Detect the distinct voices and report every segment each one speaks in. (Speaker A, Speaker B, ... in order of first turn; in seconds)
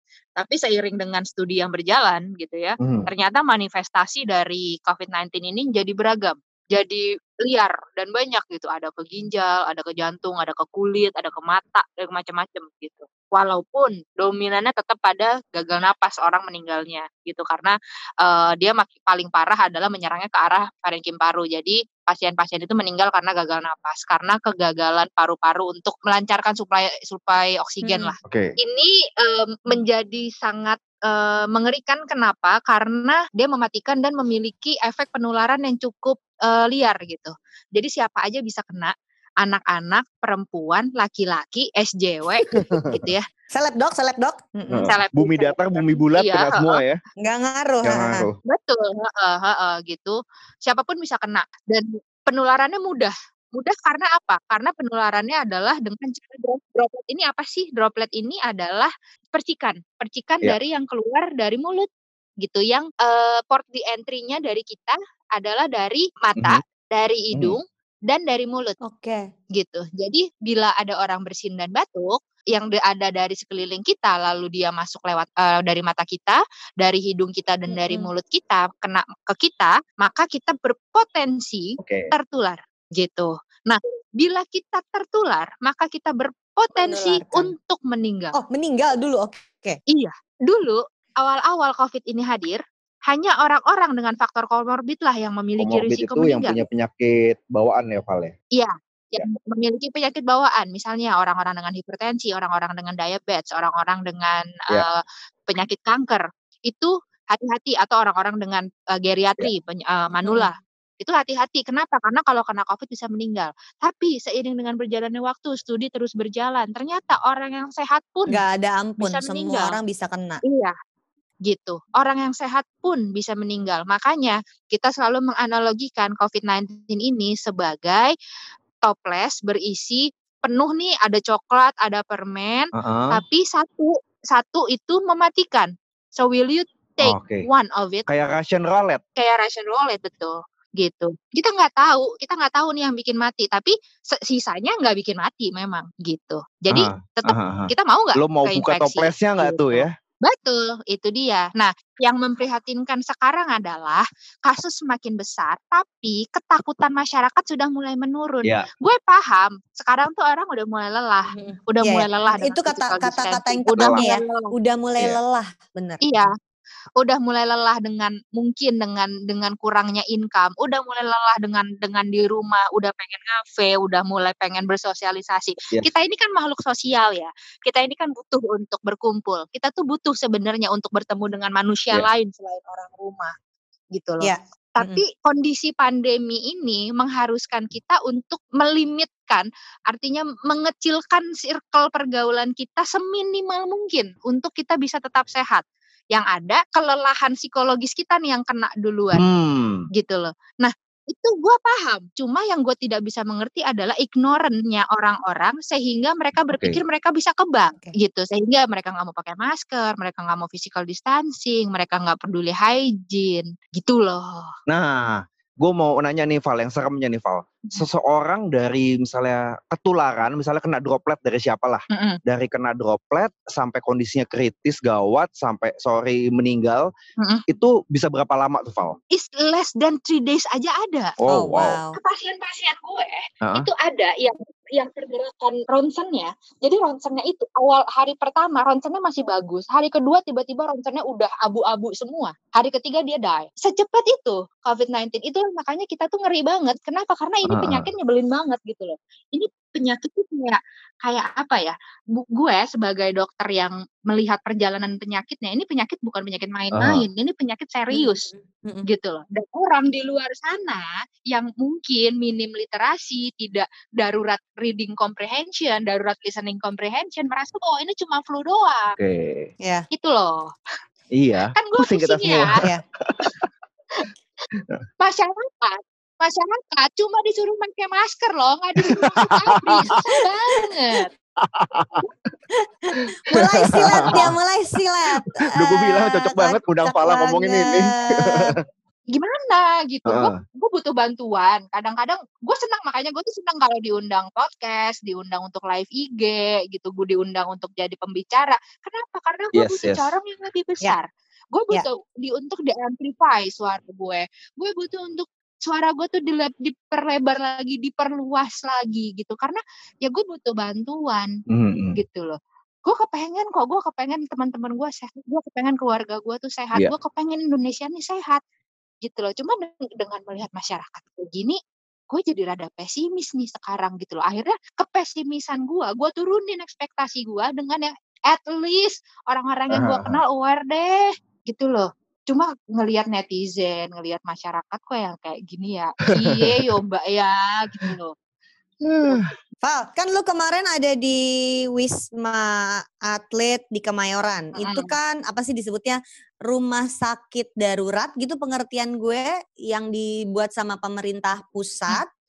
Speaker A: 0.4-43.3, 44.8-46.8, 48.5-61.9, 62.4-68.8, 69.5-88.4, 89.9-96.6, 98.5-118.4, 119.0-119.8, 120.5-120.7, 121.5-128.1, 128.8-138.1, 139.2-164.5, 166.0-166.3, 167.0-183.3, 183.9-199.2, 199.9-214.5, 221.9-222.2, 227.2-227.4, 229.1-231.2, 231.9-258.3, 258.9-268.9, 269.9-270.6, 271.6-272.6, 275.0-281.1, 289.1-311.3, 311.9-318.4, 319.0-321.6, 322.1-338.1, 344.6-344.9
Speaker B: 2.8-3.1, 28.2-28.5, 42.5-43.0, 44.7-47.0, 47.8-48.4, 81.8-82.1, 95.6-98.3, 132.8-133.2, 137.0-137.4, 138.1-139.0, 146.7-149.9, 163.8-164.0, 199.2-199.8, 206.5-206.8, 214.7-226.9, 227.5-229.0, 231.2-231.8, 233.4-233.7, 247.5-247.9, 256.7-257.1, 269.0-269.5, 271.1-273.5, 274.5-274.8, 278.8-280.0, 281.4-282.1, 282.9-284.3, 285.6-288.6, 290.1-290.4, 299.5-300.1, 311.5-312.0, 329.7-330.2, 338.8-339.3
Speaker C: 27.8-28.1, 43.5-44.9, 47.2-48.2, 68.8-69.3, 77.7-78.1, 86.8-87.5, 88.4-89.8, 110.2-110.5, 118.3-120.4, 161.3-166.3, 184.2-185.0, 231.3-232.0, 257.9-258.9, 269.6-269.9, 282.5-288.6, 339.6-352.1